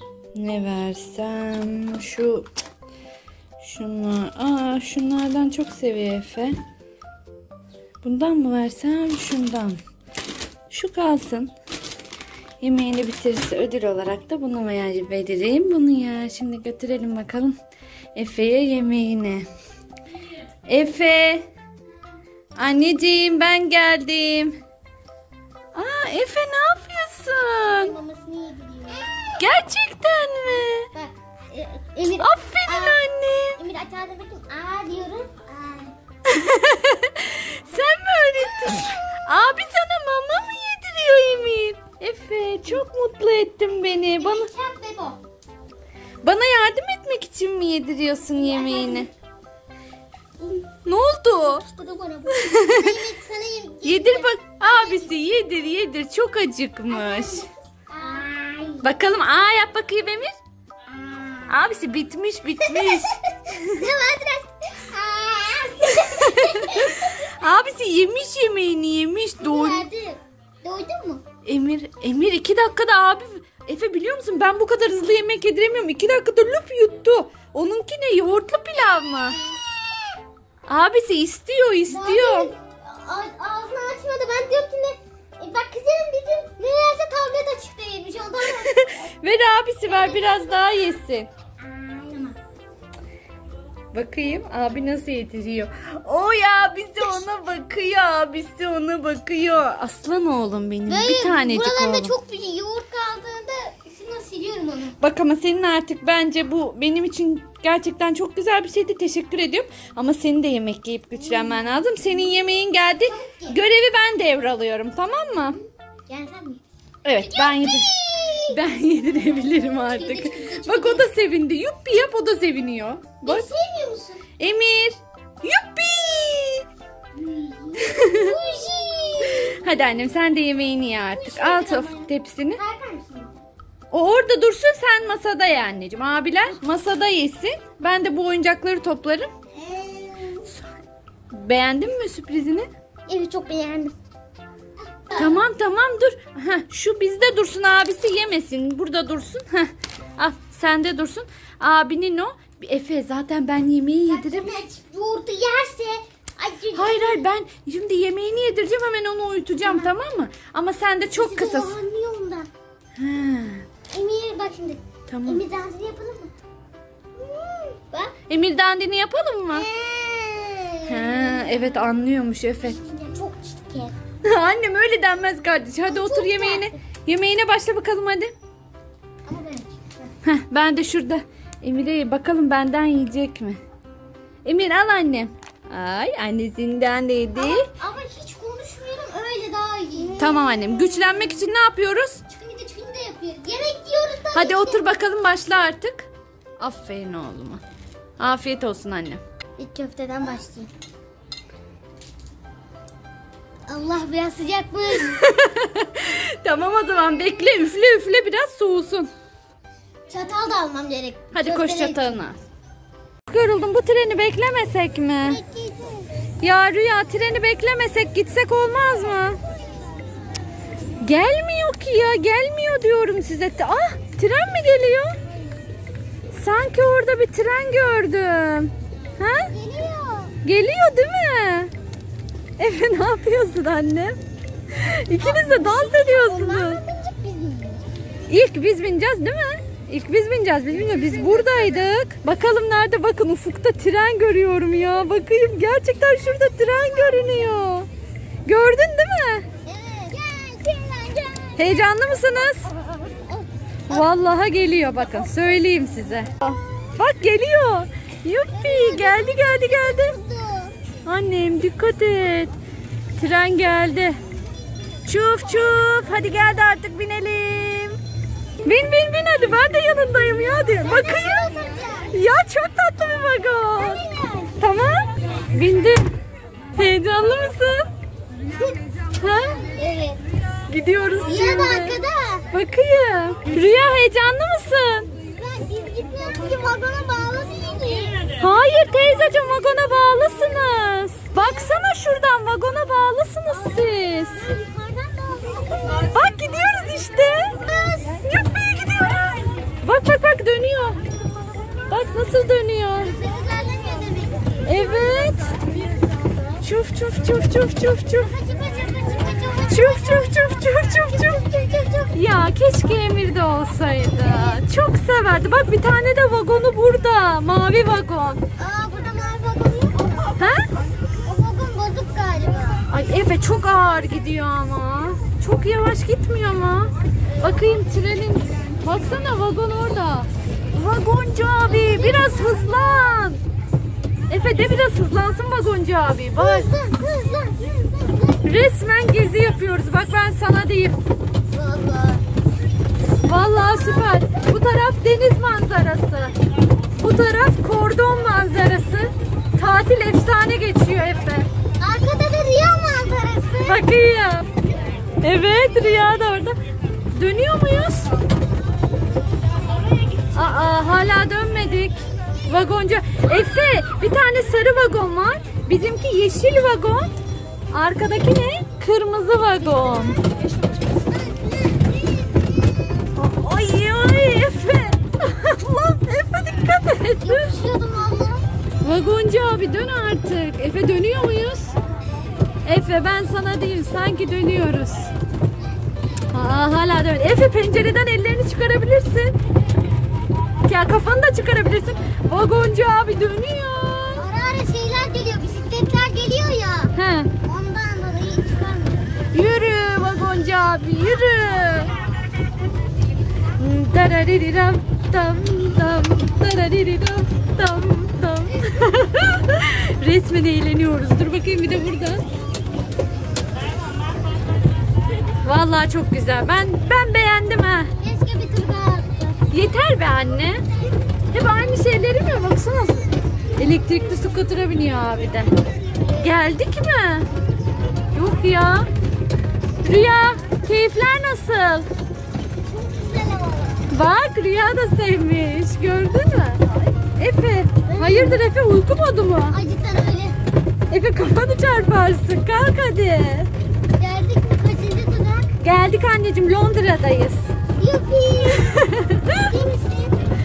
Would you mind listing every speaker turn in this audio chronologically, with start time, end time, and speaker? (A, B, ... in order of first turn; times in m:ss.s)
0:00.3-0:02.5 A
0:03.6-0:06.6 A
0:08.0-0:09.8 A
0:10.7-0:11.5 A
0:12.6-0:17.6 A
0:18.1-0:19.5 A
0:20.6-0:21.5 A
0:22.6-0:24.6 A
0:25.7-0:27.9 A
0:27.6-0:29.2 B
0:29.4-0:30.9 A
0:30.9-0:35.9 B
0:32.2-0:33.6 A
0:36.2-0:44.5 A
0:44.2-0:45.2 B
0:46.2-0:49.1 A
0:48.3-0:49.1 B
0:50.4-0:50.7 B
0:50.8-0:51.6 A
0:51.4-0:55.1 B
0:52.3-0:52.9 A
0:53.8-0:57.5 A
0:56.9-0:58.9 B
0:58.8-1:00.3 A
1:00.9-1:01.4 B
1:01.5-1:03.8 A
1:02.6-1:07.3 B
1:06.0-1:09.8 A
1:09.4-1:11.2 B
1:11.4-1:19.4 A
1:19.4-1:19.8 B
1:20.6-1:22.5 A
1:21.9-1:29.0 B
1:28.6-1:31.3 A
1:29.8-1:30.9 B
1:31.6-1:32.4 B
1:33.9-1:42.1 A
1:40.9-1:45.0 B
1:45.0-1:55.6 A
1:53.0-1:53.6 B
1:56.1-1:56.6 B
1:57.0-1:57.9 A
1:57.2-1:58.6 B
1:58.5-2:03.5 A
1:59.7-2:01.1 B
2:03.2-2:04.2 B
2:04.4-2:06.6 A
2:07.1-2:09.8 B
2:07.8-2:08.3 A
2:09.3-2:12.6 A
2:11.2-2:13.3 B
2:13.9-2:19.3 A
2:19.5-2:20.5 B
2:21.3-2:22.7 A
2:23.1-2:24.0 B
2:24.9-2:25.4 B
2:25.2-2:34.5 A
2:34.1-2:37.2 B
2:36.7-2:41.8 A
2:39.6-2:39.9 B
2:41.1-2:42.5 B
2:43.0-2:43.6 A
2:43.9-2:46.3 B
2:45.1-2:45.4 A
2:47.2-2:48.1 B
2:48.3-2:49.6 A
2:49.5-2:51.8 B
2:50.8-2:52.8 A
2:52.6-2:54.0 B
2:54.2-2:58.3 A
2:55.9-2:56.7 B
2:59.3-2:59.7 B
3:00.2-3:03.6 A
3:04.4-3:07.7 A
3:07.3-3:10.4 B
3:10.2-3:12.2 A
3:12.3-3:14.9 B
3:14.3-3:16.1 A
3:16.6-3:17.6 A
3:18.2-3:19.2 A
3:19.6-3:20.7 B
3:23.7-3:25.2 B
3:24.9-3:29.1 A
3:30.1-3:32.2 B
3:31.3-3:32.4 A
3:33.3-3:35.4 A
3:35.2-3:36.1 B
3:36.4-3:39.4 A
3:41.0-3:45.2 A
3:46.3-3:49.5 A
3:49.5-3:50.3 B
3:50.4-3:51.7 A
3:52.6-3:54.2 A
3:54.7-3:56.8 A
3:55.2-3:57.8 B
3:58.3-4:07.9 A
4:01.1-4:01.5 B
4:08.4-4:09.5 A
4:09.6-4:11.8 B
4:11.6-4:12.7 A
4:13.2-4:14.1 B
4:13.9-4:20.2 A
4:18.5-4:20.7 B
4:21.0-4:22.5 A
4:23.2-4:24.2 A
4:25.0-4:28.0 A
4:28.6-4:31.5 A
4:30.8-4:32.1 B
4:32.1-4:34.0 A
4:33.8-4:34.6 B
4:34.6-4:36.1 A
4:36.7-4:37.9 A
4:39.2-4:39.6 A
4:39.6-4:40.2 B
4:40.7-4:42.0 A
4:41.2-4:42.4 B
4:42.5-4:45.1 A
4:45.4-4:48.2 B
4:48.4-4:54.4 A
4:54.4-4:56.1 B
4:56.1-4:57.6 A
4:57.6-4:58.2 B
4:58.2-5:01.0 A
5:01.9-5:03.1 A
5:03.0-5:04.9 B
5:04.6-5:05.5 A
5:06.6-5:08.3 A
5:08.2-5:10.3 B
5:09.7-5:11.4 A
5:11.1-5:12.1 B
5:12.1-5:18.4 A
5:14.3-5:14.6 B
5:18.6-5:20.4 B
5:20.4-5:20.7 A
5:21.2-5:22.8 B
5:22.9-5:33.4 A
5:31.6-5:32.8 B
5:34.3-5:36.7 A
5:36.4-5:38.5 B
5:38.4-5:41.0 A
5:41.5-5:42.2 B
5:43.2-5:46.3 A
5:43.6-5:44.5 B
5:47.0-5:51.5 A
5:51.8-5:53.8 B
5:53.6-5:54.5 A
5:55.2-5:56.5 A
5:57.1-5:58.2 A
6:00.3-6:07.1 A
6:07.7-6:10.2 A
6:09.8-6:12.4 B
6:13.2-6:17.5 A
6:17.2-6:18.5 B
6:18.8-6:21.8 A
6:22.6-6:25.1 A
6:26.3-6:29.3 A
6:30.6-6:34.2 A
6:34.2-6:39.1 B
6:36.9-6:37.3 A
6:39.3-6:41.9 A
6:43.6-6:52.2 A
6:55.4-6:57.9 A
6:58.0-6:59.4 B
6:59.5-7:00.6 A
7:01.3-7:05.5 A
7:06.1-7:07.3 A
7:08.1-7:08.9 A
7:09.8-7:11.9 A
7:12.6-7:13.8 B
7:13.9-7:16.6 A
7:17.2-7:19.6 A
7:17.8-7:18.4 B
7:19.5-7:20.4 B
7:20.9-7:23.5 A
7:24.0-7:25.5 B
7:25.6-7:27.5 A
7:27.8-7:28.7 B
7:28.5-7:29.5 A
7:29.4-7:30.2 B